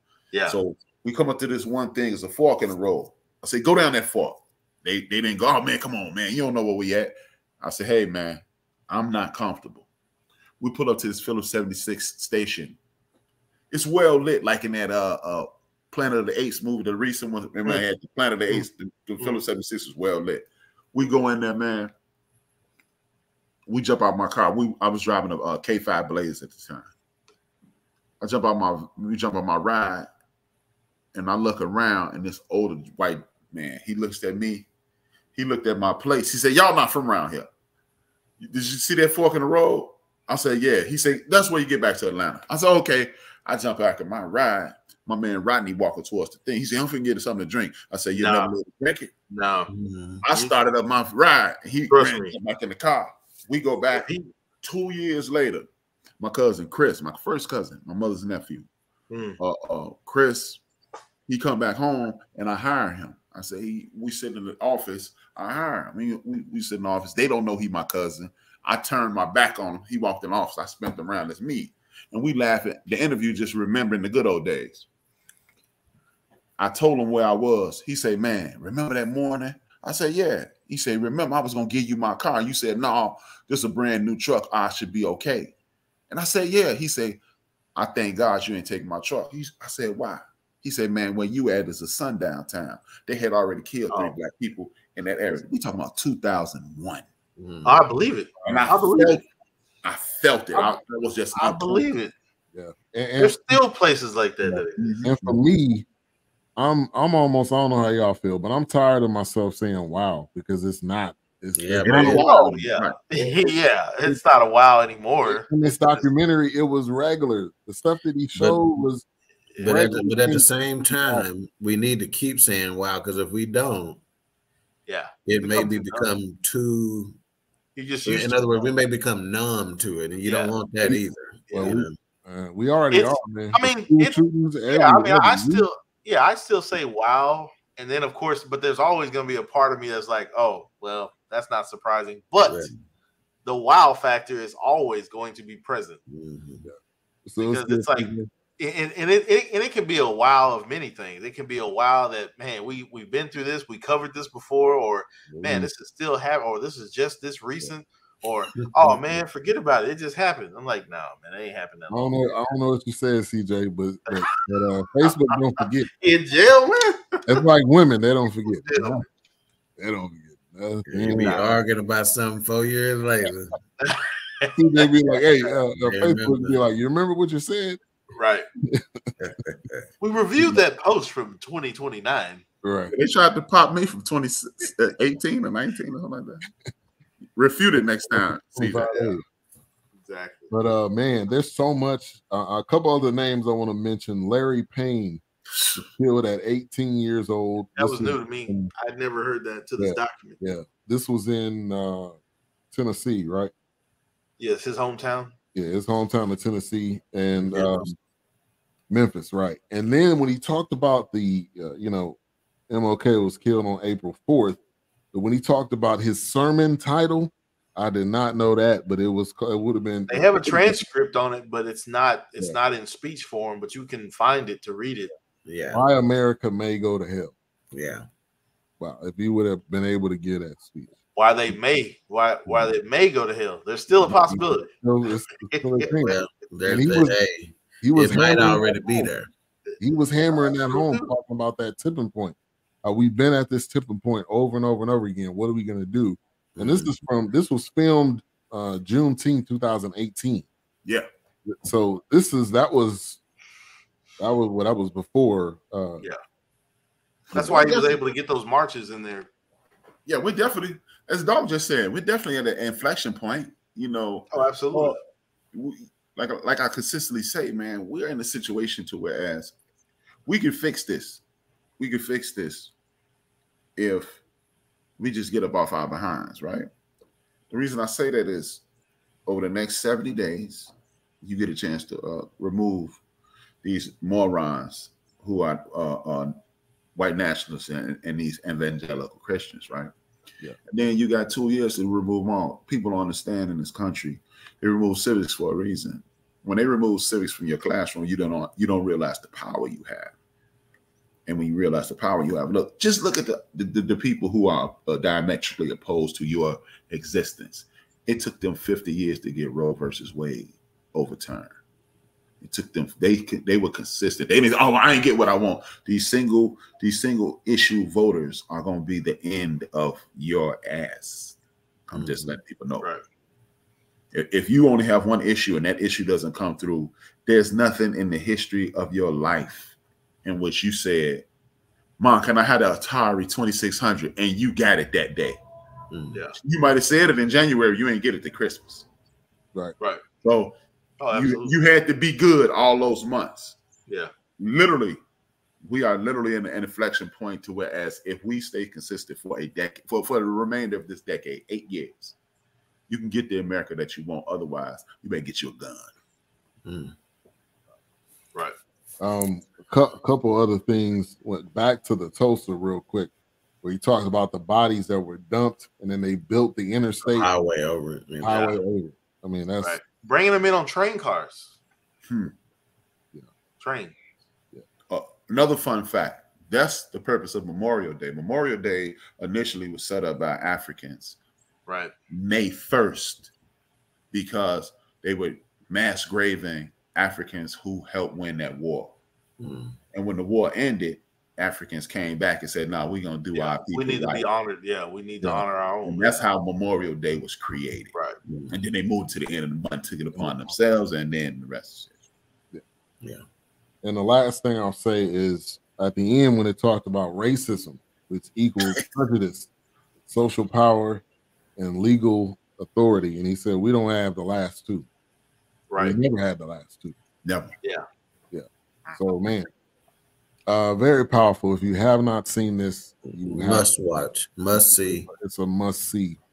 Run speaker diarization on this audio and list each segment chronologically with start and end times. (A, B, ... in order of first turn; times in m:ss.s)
0:00.3-0:00.6 A
0:00.5-0:09.9 B
0:10.6-0:12.8 B
0:13.7-0:21.9 B
0:23.7-0:26.9 B
0:28.2-0:30.1 B
0:31.1-0:34.7 B
0:35.3-0:37.5 B
0:38.4-0:49.1 B
0:48.2-0:48.5 A
0:49.3-0:49.7 A
0:49.7-0:50.2 C
0:50.2-0:54.1 B
0:51.9-0:52.4 A
0:53.9-0:54.3 A
0:54.6-0:55.7 B
0:56.2-0:58.7 B
0:59.1-0:59.4 A
0:59.4-1:00.6 B
1:01.3-1:14.8 B
1:16.6-1:25.5 B
1:26.1-1:27.2 B
1:27.8-1:37.1 B
1:37.4-1:37.8 C
1:37.6-1:39.2 A
1:38.5-1:39.2 B
1:39.8-1:41.8 B
1:41.3-1:42.1 A
1:42.5-1:43.6 D
1:43.2-1:45.1 A
1:44.4-1:45.8 D
1:44.8-1:45.2 B
1:46.6-1:52.2 D
1:51.6-1:52.2 C
1:51.8-1:53.6 B
1:51.8-1:56.0 A
1:55.2-1:59.0 D
1:58.3-1:58.6 C
1:59.5-1:59.8 A
1:59.6-2:04.0 C
1:59.6-2:01.2 D
2:04.9-2:06.1 A
2:05.2-2:07.2 C
2:07.8-2:08.6 A
2:08.0-2:12.0 C
2:10.2-2:10.5 A
2:11.5-2:11.8 A
2:11.5-2:15.7 D
2:12.9-2:14.2 A
2:14.7-2:22.6 A
2:22.4-2:22.7 C
2:23.4-2:26.0 A
2:26.1-2:26.6 C
2:26.6-2:28.3 D
2:27.4-2:42.4 A
2:35.3-2:35.7 D
2:41.9-2:45.9 D
2:44.1-2:44.4 A
2:45.0-2:45.3 A
2:46.0-2:47.4 A
2:47.3-2:49.0 D
2:48.5-2:49.0 A
2:49.8-2:51.4 D
2:50.9-2:53.5 C
2:51.2-2:51.6 A
2:53.8-2:55.5 A
2:54.5-2:57.8 D
2:55.8-2:56.6 C
2:58.1-2:58.4 A
2:58.6-2:59.1 D
2:59.2-2:59.8 C
3:00.0-3:02.4 A
3:02.6-3:02.9 D
3:02.9-3:06.4 B
3:07.4-3:08.9 B
3:08.1-3:09.2 D
3:08.7-3:09.1 A
3:10.0-3:10.5 A
3:10.5-3:15.2 D
3:15.5-3:15.8 B
3:15.8-3:18.7 D
3:17.8-3:20.4 A
3:19.8-3:22.2 D
3:22.7-3:23.5 D
3:24.4-3:25.3 A
3:25.5-3:28.0 D
3:27.5-3:27.9 A
3:28.9-3:34.6 D
3:35.1-3:40.8 D
3:40.1-3:45.1 A
3:45.4-3:45.8 C
3:45.7-3:47.3 D
3:47.7-3:48.0 C
3:48.8-3:51.0 D
3:51.2-3:54.7 A
3:54.0-3:57.2 D
3:55.5-3:55.9 A
3:56.0-3:59.3 C
3:57.8-3:59.1 D
3:59.8-4:10.5 D
4:00.4-4:01.1 A
4:06.6-4:06.9 C
4:11.4-4:13.2 D
4:14.2-4:16.0 D
4:17.3-4:18.0 B
4:17.3-4:19.3 A
4:20.0-4:25.0 B
4:24.3-4:25.0 A
4:25.5-4:29.5 B
4:30.2-4:31.2 B
4:31.8-4:32.7 B
4:33.8-4:34.2 B
4:35.0-4:36.7 B
4:37.5-4:38.6 B
4:39.2-4:43.0 B
4:43.6-4:46.4 B
4:47.0-4:49.9 B
4:50.7-5:00.1 B
5:01.2-5:11.6 B
5:12.4-5:21.4 B
5:21.9-5:22.9 B
5:21.9-5:22.4 C
5:24.1-5:29.7 B
5:30.2-5:31.2 B
5:32.0-5:35.4 B
5:35.9-5:36.2 C
5:36.4-5:38.8 B
5:40.2-5:40.6 B
5:41.0-5:41.5 A
5:41.1-5:43.6 B
5:44.4-5:45.0 B
5:45.6-5:52.1 B
5:52.9-5:55.9 B
5:56.6-5:56.9 C
5:59.0-6:07.3 D
6:07.1-6:08.5 C
6:08.2-6:09.8 D
6:08.3-6:08.6 A
6:09.6-6:11.6 A
6:12.1-6:12.3 B
6:13.6-6:13.9 A
6:14.9-6:21.2 B
6:21.6-6:21.9 A
6:22.1-6:23.3 B
6:24.1-6:28.9 B
6:29.4-6:29.8 C
6:29.9-6:34.3 B
6:33.3-6:36.2 A
6:35.2-6:37.9 B
6:38.5-6:41.9 B
6:43.8-6:49.5 D
6:50.1-6:51.0 D
6:51.6-6:54.8 D
6:55.7-6:56.0 A
6:55.8-6:56.9 D
6:57.2-6:57.5 B
6:59.0-6:59.5 D
7:00.5-7:03.7 D
7:03.1-7:05.1 C
7:04.6-7:06.2 D